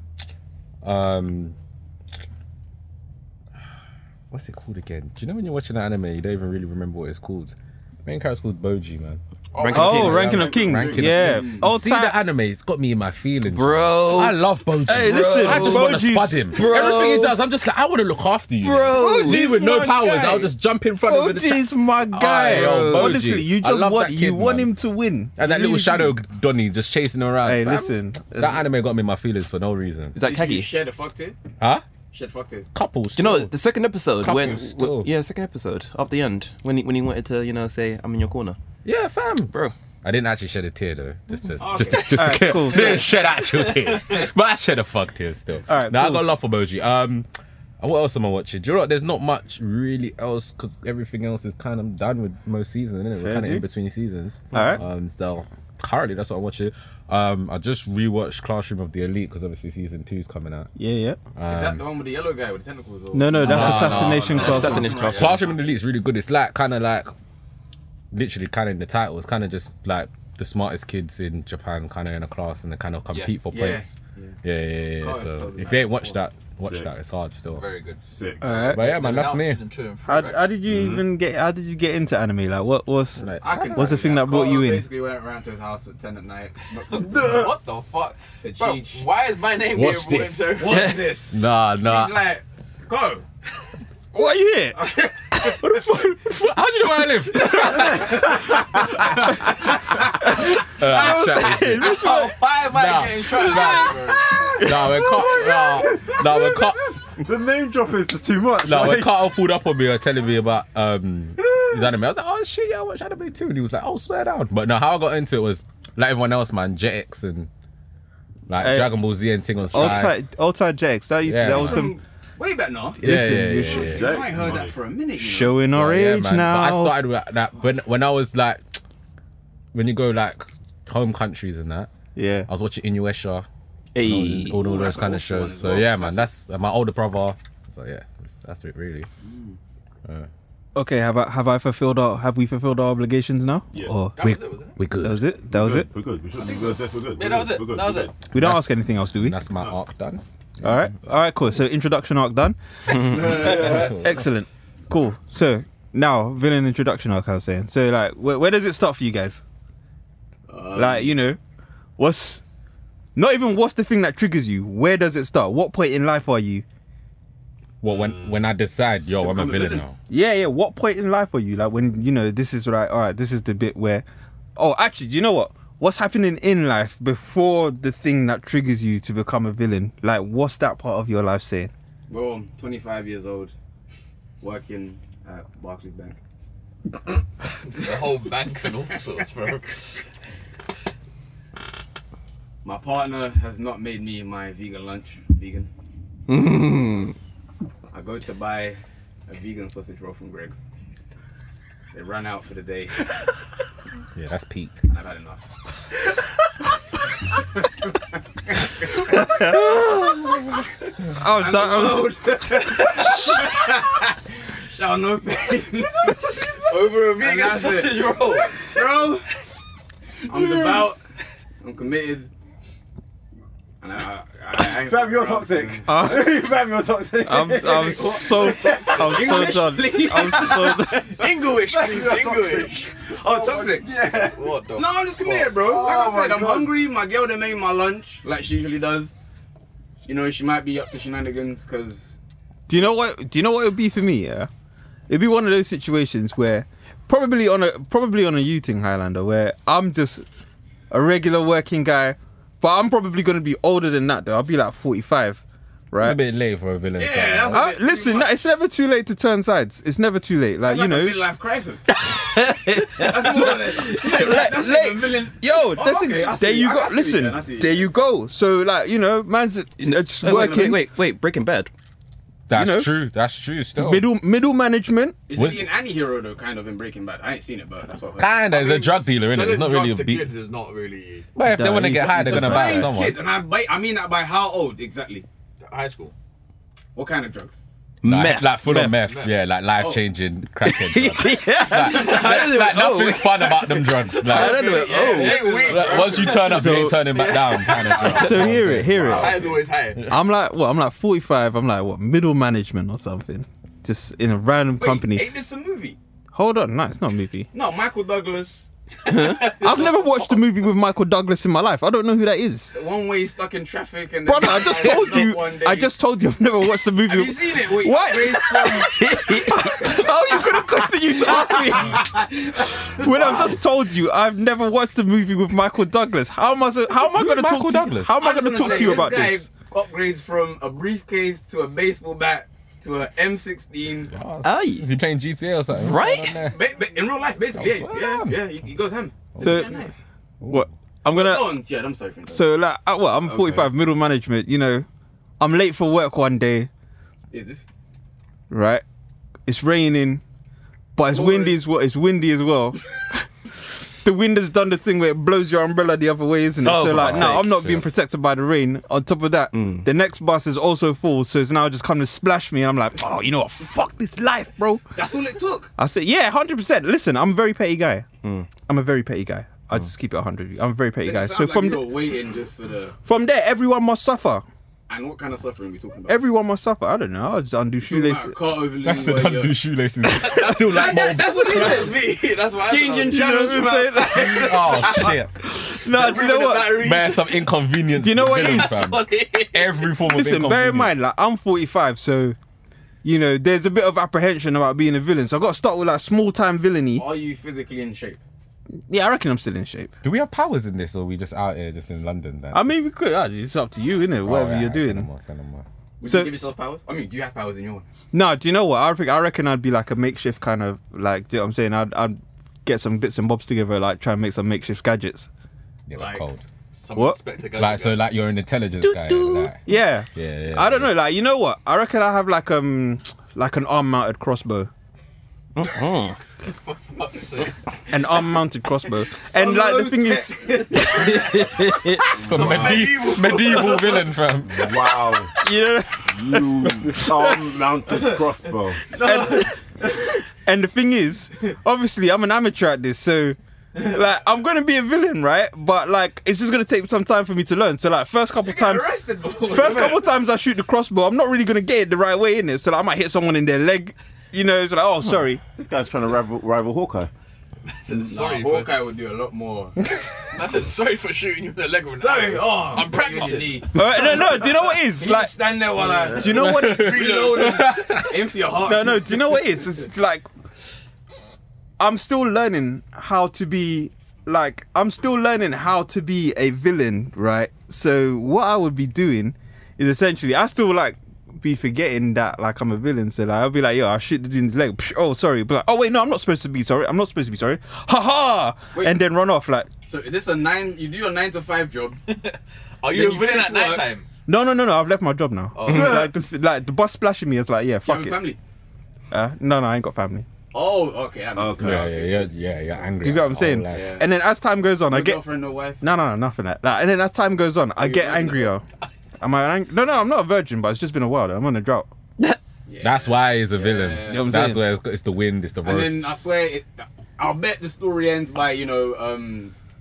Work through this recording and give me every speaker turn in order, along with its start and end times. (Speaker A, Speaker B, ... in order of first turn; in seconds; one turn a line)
Speaker A: 0.8-1.6
Speaker A: 4.3-9.2
Speaker B: 9.5-10.6
Speaker C: 9.6-10.5
Speaker A: 9.7-24.7
Speaker D: 9.7-12.2
Speaker E: 10.3-11.2
Speaker F: 10.9-11.7
Speaker C: 13.4-16.0
Speaker D: 14.9-16.9
Speaker C: 16.5-17.4
Speaker C: 18.6-19.4
Speaker D: 18.9-20.5
Speaker D: 21.0-26.1
Speaker B: 22.2-22.9
Speaker A: 25.4-30.2
Speaker D: 27.4-28.6
Speaker C: 30.1-30.7
Speaker F: 30.2-31.4
Speaker A: 31.6-31.9
Speaker F: 32.1-32.7
Speaker A: 32.7-33.5
Speaker C: 33.2-38.6
Speaker A: 34.2-35.1
Speaker A: 38.9-47.3
Speaker C: 39.5-39.8
Speaker F: 41.6-43.0
Speaker D: 42.1-43.1
Speaker D: 45.7-46.4
Speaker A: 47.8-60.7
Speaker D: 53.2-53.6
Speaker D: 54.5-54.8
Speaker D: 60.8-61.2
Speaker A: 61.4-61.8
Speaker F: 61.5-65.6
Speaker D: 63.1-65.0
Speaker A: 63.4-67.1
Speaker C: 63.6-65.4
Speaker B: 63.9-65.3
Speaker E: 63.9-64.5
Speaker A: 68.1-77.7
Speaker F: 73.5-74.4
Speaker F: 75.0-76.2
Speaker E: 76.6-76.9
Speaker B: 77.5-78.0
Speaker E: 78.0-78.7
Speaker D: 78.4-78.8
Speaker A: 78.6-79.6
Speaker B: 78.7-80.4
Speaker D: 80.1-84.9
Speaker E: 80.7-81.1
Speaker A: 83.2-83.9
Speaker F: 83.4-87.3
Speaker B: 86.9-90.9
Speaker E: 86.9-87.5
Speaker F: 88.4-89.0
Speaker A: 89.7-92.2
Speaker F: 90.6-93.2
Speaker C: 90.7-91.0
Speaker D: 94.1-94.8
Speaker F: 94.8-95.4
Speaker A: 95.4-99.5
Speaker A: 100.0-103.8
Speaker D: 100.3-102.4
Speaker F: 101.8-102.2
Speaker B: 102.0-104.2
Speaker F: 102.8-104.3
Speaker D: 103.5-105.4
Speaker A: 104.6-107.0
Speaker E: 105.8-106.2
Speaker E: 107.1-109.4
Speaker A: 108.6-117.5
Speaker A: 118.5-120.2
Speaker D: 118.6-118.9
Speaker D: 119.7-122.0
Speaker A: 121.2-121.9
Speaker F: 121.4-125.8
Speaker A: 123.0-124.1
Speaker D: 123.0-124.0
Speaker E: 123.5-124.8
Speaker D: 125.2-127.0
Speaker A: 125.7-128.8
Speaker A: 129.7-131.9
Speaker D: 132.2-132.5
Speaker A: 132.5-133.5
Speaker C: 133.9-134.8
Speaker A: 134.0-139.1
Speaker F: 134.6-136.3
Speaker F: 139.2-139.6
Speaker D: 140.8-144.1
Speaker E: 143.7-144.0
Speaker B: 144.2-144.8
Speaker A: 144.2-145.3
Speaker D: 145.0-145.9
Speaker E: 145.5-148.2
Speaker B: 147.1-148.1
Speaker D: 148.3-149.4
Speaker A: 148.3-150.2
Speaker D: 150.6-152.6
Speaker C: 152.9-153.7
Speaker F: 153.1-153.9
Speaker D: 153.1-159.4
Speaker E: 153.4-153.9
Speaker A: 153.6-154.0
Speaker F: 160.5-161.2
Speaker D: 160.8-161.4
Speaker D: 162.0-162.4
Speaker D: 163.2-166.6
Speaker A: 167.8-170.0
Speaker E: 167.9-168.4
Speaker F: 169.2-169.8
Speaker D: 170.1-181.7
Speaker F: 182.1-183.5
Speaker F: 184.4-186.2
Speaker B: 187.7-189.9
Speaker F: 192.6-195.7
Speaker C: 196.3-197.2
Speaker F: 197.9-200.6
Speaker F: 201.9-203.1
Speaker A: 204.2-204.8
Speaker F: 204.9-205.4
Speaker F: 207.8-209.3
Speaker D: 209.1-210.0
Speaker D: 211.1-212.2
Speaker F: 211.3-214.2
Speaker F: 214.7-219.3
Speaker B: 216.7-218.8
Speaker F: 220.3-221.0
Speaker F: 221.6-222.3
Speaker F: 223.8-226.1
Speaker E: 224.6-229.6
Speaker D: 225.9-226.4
Speaker D: 227.2-231.1
Speaker F: 228.1-231.2
Speaker B: 230.9-232.7
Speaker E: 231.5-234.6
Speaker F: 232.2-233.9
Speaker B: 234.3-235.6
Speaker F: 234.7-239.1
Speaker E: 235.6-236.8
Speaker F: 240.1-242.2
Speaker D: 242.7-244.5
Speaker D: 245.1-250.3
Speaker D: 250.9-256.2
Speaker A: 256.0-257.6
Speaker F: 257.0-258.4
Speaker D: 257.5-261.2
Speaker F: 260.7-261.9
Speaker C: 261.9-263.6
Speaker F: 263.0-267.9
Speaker D: 263.8-270.9
Speaker C: 269.8-271.7
Speaker A: 272.5-274.0
Speaker D: 272.5-272.9
Speaker D: 273.8-275.2
Speaker F: 275.3-278.7
Speaker A: 275.4-275.7
Speaker A: 278.2-280.3
Speaker B: 278.5-281.3
Speaker A: 281.4-283.2
Speaker D: 281.4-282.9
Speaker F: 282.0-285.3
Speaker B: 285.6-286.1
Speaker F: 286.9-287.6
Speaker C: 288.0-288.8
Speaker A: 288.1-294.8
Speaker D: 288.6-289.0
Speaker B: 289.0-289.3
Speaker C: 290.6-294.2
Speaker F: 294.2-298.5
Speaker D: 294.3-295.6
Speaker B: 294.4-296.8
Speaker A: 295.6-300.1
Speaker D: 296.4-297.1
Speaker B: 297.6-298.4
Speaker D: 298.1-305.3
Speaker F: 299.1-299.5
Speaker B: 299.1-300.0
Speaker F: 304.8-306.0
Speaker D: 306.3-307.5
Speaker F: 307.5-308.7
Speaker C: 309.1-309.6
Speaker B: 309.5-309.8
Speaker D: 309.5-312.8
Speaker F: 312.7-315.9
Speaker D: 314.3-322.1
Speaker F: 317.1-319.0
Speaker C: 318.8-319.8
Speaker F: 319.7-320.4
Speaker F: 321.2-323.6
Speaker D: 323.0-329.5
Speaker A: 327.1-329.0
Speaker F: 328.2-334.1
Speaker A: 334.1-336.6
Speaker C: 334.4-334.9
Speaker C: 335.7-336.4
Speaker F: 336.4-340.0
Speaker A: 337.6-338.4
Speaker A: 339.4-339.7
Speaker D: 339.4-339.7
Speaker A: 340.4-340.7
Speaker D: 340.5-341.5
Speaker F: 341.1-342.4
Speaker D: 342.3-344.9
Speaker E: 343.2-343.7
Speaker D: 345.4-346.7
Speaker F: 347.3-347.7
Speaker D: 348.5-348.8
Speaker D: 349.5-350.2
Speaker D: 351.0-352.8
Speaker F: 351.1-351.6
Speaker D: 353.9-364.8
Speaker C: 356.6-357.5
Speaker A: 356.6-357.8
Speaker C: 359.5-359.9
Speaker F: 364.9-365.7
Speaker D: 365.8-368.1
Speaker C: 368.2-368.5
Speaker D: 368.7-371.9
Speaker F: 371.0-373.0
Speaker D: 373.1-374.4
Speaker F: 374.9-376.2
Speaker D: 376.1-378.4
Speaker F: 377.8-379.6
Speaker A: 378.8-382.0
Speaker B: 380.2-383.2
Speaker F: 380.5-382.0
Speaker F: 382.5-385.1
Speaker D: 383.1-384.9
Speaker A: 384.2-385.4
Speaker D: 385.6-387.0
Speaker B: 385.9-387.5
Speaker A: 386.7-390.9
Speaker D: 387.9-388.9
Speaker B: 388.3-389.9
Speaker D: 390.0-392.4
Speaker D: 393.0-397.1
Speaker F: 396.9-398.2
Speaker D: 398.9-399.9
Speaker A: 400.0-402.7
Speaker D: 402.5-405.1
Speaker A: 404.2-405.6
Speaker F: 406.0-407.9
Speaker D: 406.0-406.3
Speaker D: 408.1-415.3
Speaker A: 415.9-416.4
Speaker F: 415.9-416.2
Speaker B: 416.7-418.1
Speaker A: 417.6-419.6
Speaker C: 418.8-419.5
Speaker D: 419.7-424.7
Speaker A: 420.1-420.9
Speaker C: 425.6-426.2
Speaker B: 426.5-427.5
Speaker D: 427.9-430.5
Speaker F: 429.3-431.4
Speaker C: 430.8-432.1
Speaker A: 432.2-435.0
Speaker B: 432.3-434.0
Speaker E: 432.3-432.9
Speaker F: 432.5-432.7
Speaker F: 433.3-433.8
Speaker E: 434.5-435.3
Speaker D: 435.4-437.4
Speaker E: 436.1-438.8
Speaker F: 438.8-440.1
Speaker D: 439.0-439.6
Speaker D: 440.4-449.0
Speaker F: 448.4-450.0
Speaker D: 449.5-455.4
Speaker E: 449.7-450.0
Speaker E: 455.6-457.1
Speaker B: 457.7-458.7
Speaker F: 458.1-459.8
Speaker B: 460.2-463.9
Speaker F: 462.0-469.3
Speaker D: 463.8-465.4
Speaker D: 466.1-467.0
Speaker A: 466.4-468.1
Speaker B: 466.8-467.6
Speaker D: 468.6-470.3
Speaker D: 471.8-489.7
Speaker F: 489.9-492.0
Speaker B: 492.1-494.1
Speaker F: 492.9-493.9
Speaker D: 494.3-498.2
Speaker B: 495.6-496.0
Speaker E: 495.7-496.1
Speaker F: 497.9-498.4
Speaker D: 499.1-500.3
Speaker F: 500.5-502.3
Speaker E: 501.3-502.3
Speaker A: 501.6-503.9
Speaker D: 503.0-505.2
Speaker F: 503.7-504.1
Speaker F: 504.9-505.8
Speaker D: 505.8-508.6
Speaker F: 507.8-508.5
Speaker D: 509.2-511.9
Speaker F: 512.7-514.4
Speaker A: 512.8-516.1
Speaker D: 514.1-514.6
Speaker F: 515.6-519.5